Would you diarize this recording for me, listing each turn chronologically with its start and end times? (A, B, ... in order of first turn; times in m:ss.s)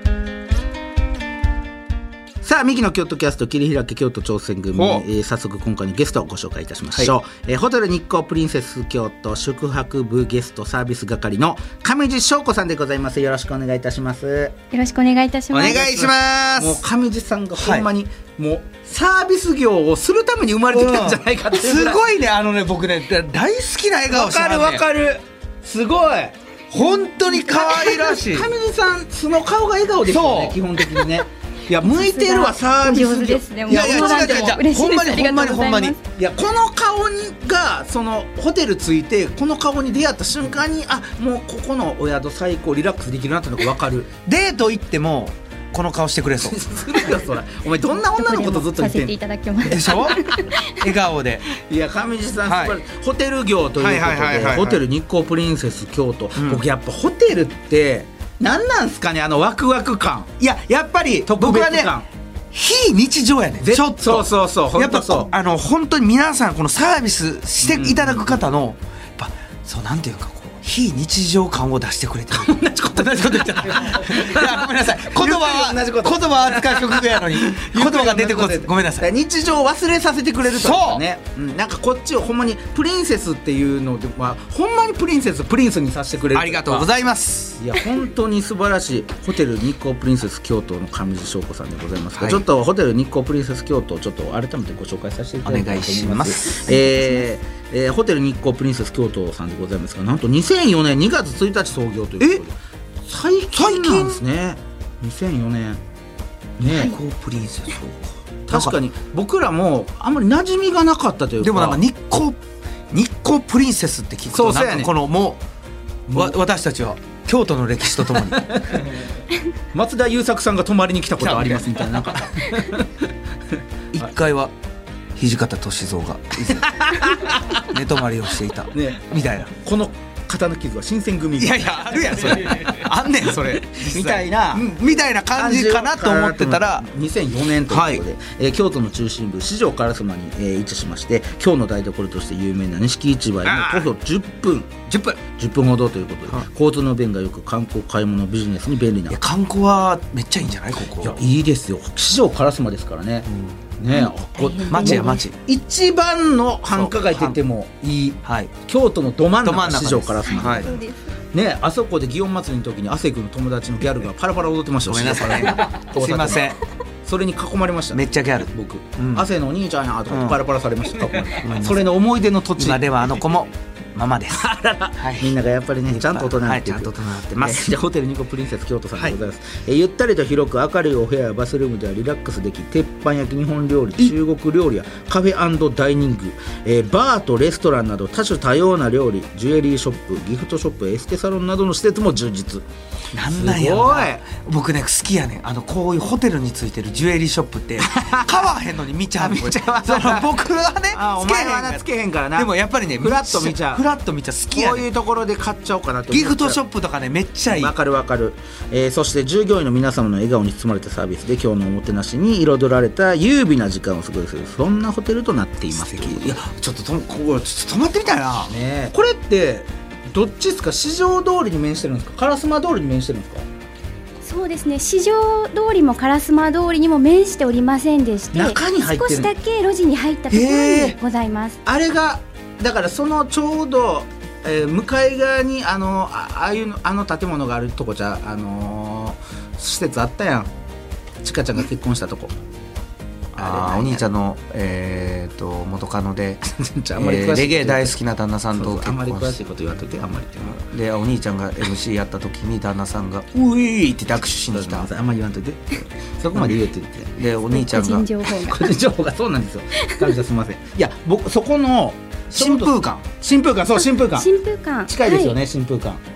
0:02.4-0:14.6 A
0:04.7-0:05.0 B
0:14.7-0:15.9 C
0:15.5-0:16.8 B
0:15.6-0:22.0 A
0:17.6-0:17.9 B
0:20.7-0:24.9 B
0:24.1-0:26.4 A
0:26.7-0:28.5 B
0:27.3-0:34.6 A
0:30.1-0:31.0 B
0:31.8-0:36.0 C
0:33.7-0:36.0 B
0:36.2-0:44.1 A
0:44.3-0:47.1 B
0:46.4-0:49.2 A
0:48.0-0:50.7 C
0:49.7-0:51.5 B
0:51.5-1:00.3 A
0:52.5-0:52.8 B
0:53.8-0:54.8 B
0:56.4-0:56.6 B
1:00.4-1:01.9 B
1:01.2-1:02.1 A
1:02.5-1:19.1 B
1:03.6-1:05.3 A
1:07.6-1:08.4 A
1:12.3-1:26.9 A
1:20.5-1:21.0 B
1:26.3-1:27.6 B
1:27.6-1:45.8 A
1:32.2-1:32.4 B
1:35.4-1:36.7 B
1:36.7-1:37.3 C
1:43.5-1:44.2 B
1:46.6-1:47.0 A
1:46.7-1:48.8 B
1:48.5-1:51.8 A
1:51.4-1:52.4 B
1:52.9-1:55.4 B
1:54.3-1:54.9 A
1:56.1-1:56.4 A
1:56.1-1:58.9 B
1:58.3-1:58.9 A
1:59.7-2:03.1 A
2:01.2-2:02.3 B
2:03.9-2:04.5 B
2:05.2-2:09.5 B
2:06.6-2:07.6 A
2:08.7-2:12.8 A
2:11.4-2:16.9 B
2:13.4-2:14.7 A
2:15.3-2:29.2 A
2:17.7-2:18.0 B
2:23.4-2:23.9 B
2:24.9-2:25.2 B
2:29.1-2:31.2 B
2:31.0-2:40.8 A
2:33.9-2:35.2 C
2:34.7-2:35.4 B
2:36.7-2:37.4 B
2:38.2-2:38.5 B
2:39.4-2:40.7 B
2:40.2-2:41.1 C
2:41.3-2:52.9 A
2:44.9-2:46.6 B
2:47.9-2:49.3 B
2:50.1-2:50.4 B
2:51.3-2:51.9 B
2:52.6-2:55.4 B
2:54.3-3:12.7 A
2:55.9-2:57.7 B
3:13.1-3:21.8 B
3:13.3-3:14.2 A
3:17.8-3:18.4 A
3:19.2-3:20.4 A
3:20.9-3:23.9 A
3:22.4-3:24.9 B
3:24.5-3:26.6 A
3:26.1-3:27.7 B
3:27.5-3:36.4 A
3:35.7-3:38.5 B
3:38.5-3:43.4 A
3:44.2-3:51.6 C
3:48.3-3:49.3 A
3:50.3-3:51.0 B
3:51.6-4:00.5 A
4:01.2-4:02.4 A
4:03.3-4:04.1 A
4:03.4-4:06.4 B
4:06.4-4:08.0 A
4:07.0-4:09.4 B
4:08.5-4:10.6 A
4:10.5-4:14.9 B
4:14.5-4:17.2 A
4:17.2-4:18.1 B
4:17.5-4:18.7 C
4:18.3-4:24.3 A
4:22.3-4:23.0 B
4:24.1-4:25.4 C
4:24.9-4:26.0 A